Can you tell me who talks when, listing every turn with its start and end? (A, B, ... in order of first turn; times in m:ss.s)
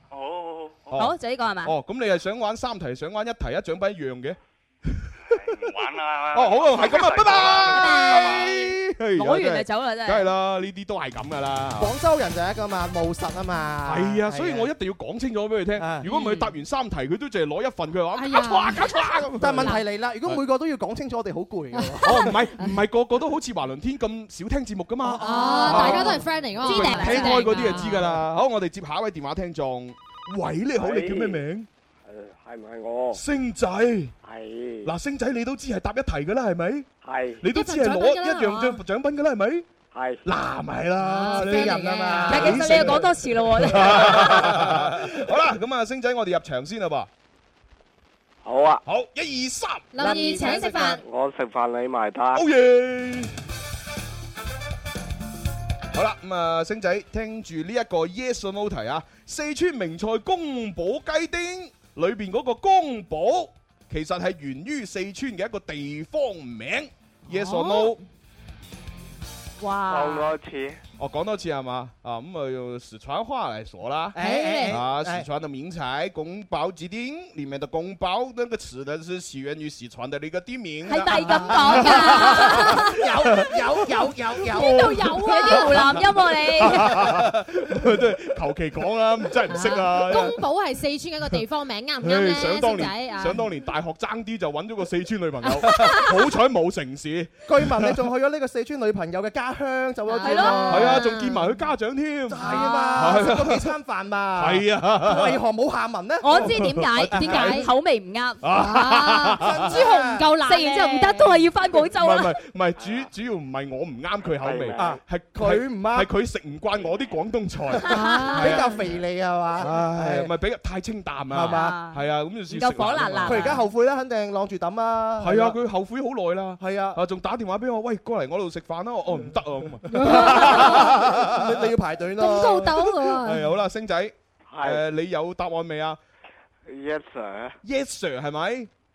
0:00.1-0:01.0 A
0:00.9-0:05.6 B
0:00.9-0:01.7 C
0:05.3-0:08.6 A
0:06.3-0:11.9 B
0:06.9-0:10.3 C
0:11.8-0:14.7 D
0:13.8-0:20.4 B
0:15.8-0:16.0 D
0:16.0-0:16.5 C
0:18.1-0:18.9 E
0:19.4-0:22.4 D
0:21.7-0:22.7 E
0:22.0-0:31.7 B
0:25.1-0:26.2 D
0:25.2-0:28.0 E
0:26.6-0:27.6 C
0:30.8-0:31.4 F
0:32.0-0:33.2 F
0:33.1-0:34.1 B
0:34.2-0:34.9 F
0:34.8-0:36.9 B
0:37.0-0:37.4 F
0:37.4-0:39.6 B
0:37.5-0:38.8 E
0:39.9-0:40.2 F
0:40.2-0:47.1 B
0:41.0-0:42.6 E
0:41.2-0:43.0 D
0:42.3-0:44.6 C
0:48.4-0:48.8 F
0:48.8-0:50.5 B
0:49.9-0:51.0 E
0:50.0-0:51.0 D
0:51.0-0:52.4 F
0:52.3-0:53.3 B
0:55.9-1:08.0 B
1:07.3-1:08.0 E
1:09.6-1:10.3 C
1:09.9-1:10.8 F
1:11.0-1:23.6 B
1:14.1-1:15.2 D
1:14.2-1:14.8 E
1:20.9-1:22.8 C
1:21.2-1:22.9 E
1:21.7-1:25.3 D
1:24.5-1:25.9 E
1:24.5-1:25.7 B
1:25.2-1:27.0 C
1:26.5-1:30.4 B
1:26.8-1:27.4 D
1:29.5-1:33.4 E
1:32.0-1:38.1 B
1:35.4-1:36.0 E
1:37.5-1:41.0 D
1:40.1-1:41.5 E
1:40.2-1:41.0 C
1:40.7-1:43.7 B
1:42.3-1:46.6 D
1:42.4-1:43.2 E
1:44.3-1:45.4 B
1:46.2-1:48.4 C
1:46.3-1:47.6 B
1:47.1-1:47.5 D
1:47.2-1:47.7 E
1:48.4-1:49.7 B
1:48.6-1:51.4 E
1:49.3-1:50.3 D
1:50.4-1:52.4 C
1:52.0-1:58.7 B
1:52.8-1:53.1 F
1:54.2-1:55.0 F
1:54.8-1:56.1 D
1:57.9-1:58.5 C
1:57.9-1:58.7 E
1:58.4-2:00.3 D
1:59.6-2:03.6 B
2:01.3-2:01.8 D
2:01.5-2:03.6 C
2:03.2-2:05.6 D
2:05.2-2:11.7 B
2:06.6-2:07.0 D
2:09.9-2:11.0 E
2:09.9-2:12.7 D
2:12.2-2:13.5 E
2:12.6-2:16.0 B
2:14.5-2:14.8 F
2:16.7-2:17.6 F
2:17.6-2:18.7 B